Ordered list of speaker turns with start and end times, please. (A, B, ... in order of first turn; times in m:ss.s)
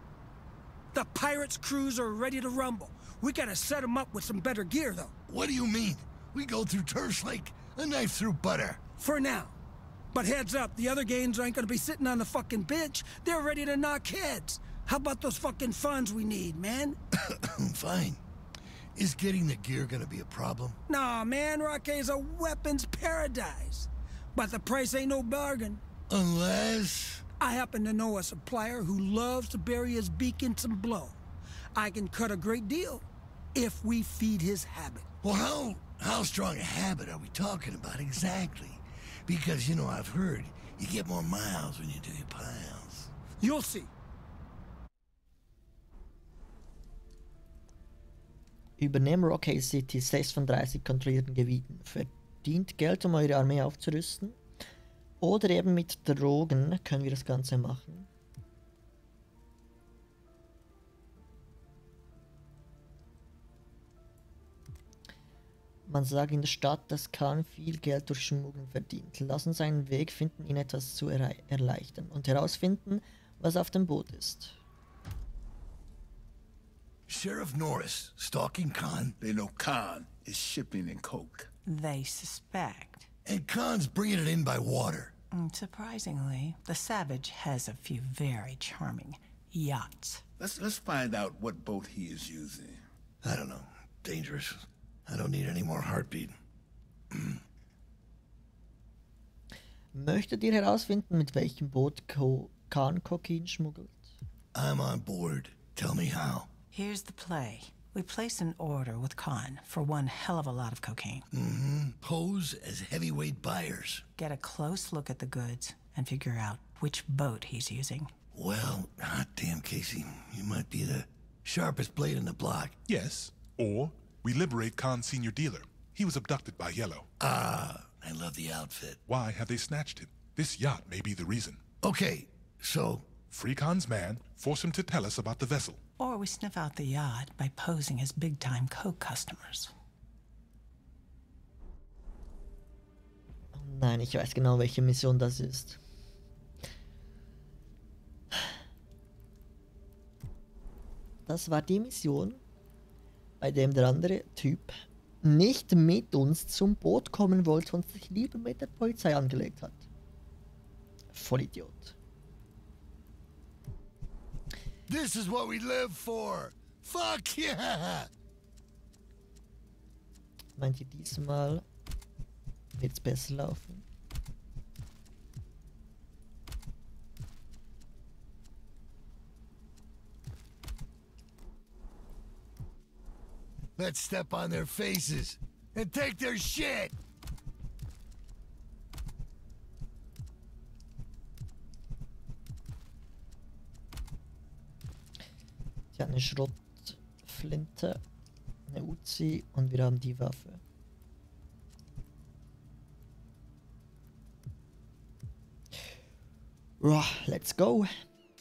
0:00.9-0:05.1 A
0:05.3-0:08.8 B
0:09.0-0:09.5 A
0:10.1-0:17.0 A
0:17.2-0:18.2 B
0:19.0-0:20.8 B
0:20.9-0:25.8 A
0:26.1-0:27.2 B
0:27.4-0:31.2 A
0:31.8-0:33.0 A
0:33.6-0:35.0 A
0:35.2-0:43.1 B
0:43.4-0:43.9 A
0:48.8-0:54.4 C
0:55.2-0:58.1 C
1:05.9-1:14.6 C
1:17.1-1:19.2 B
1:19.2-1:21.5 D
1:21.6-1:23.1 E
1:23.3-1:25.1 B
1:25.3-1:30.2 E
1:30.4-1:32.8 D
1:33.2-1:36.3 B
1:37.1-1:37.4 B
1:39.9-1:44.1 C
1:44.5-1:46.5 B
1:46.7-1:51.3 E
1:51.3-1:54.0 B
1:54.2-1:58.1 E
1:58.3-2:02.8 B
2:02.9-2:07.1 F
2:07.2-2:09.0 B
2:09.1-2:11.6 F
2:11.8-2:13.1 B
2:13.3-2:15.8 F
2:16.0-2:19.7 E
2:23.5-2:25.8 C
2:31.3-2:32.4 C
2:33.4-2:39.9 C
2:41.1-2:42.0 C
2:44.9-2:48.1 B
2:50.6-2:51.6 C
2:52.8-2:53.8 C
3:03.8-3:07.0 B
3:15.9-3:18.0 C
3:18.7-3:20.6 C
3:26.8-3:27.9 C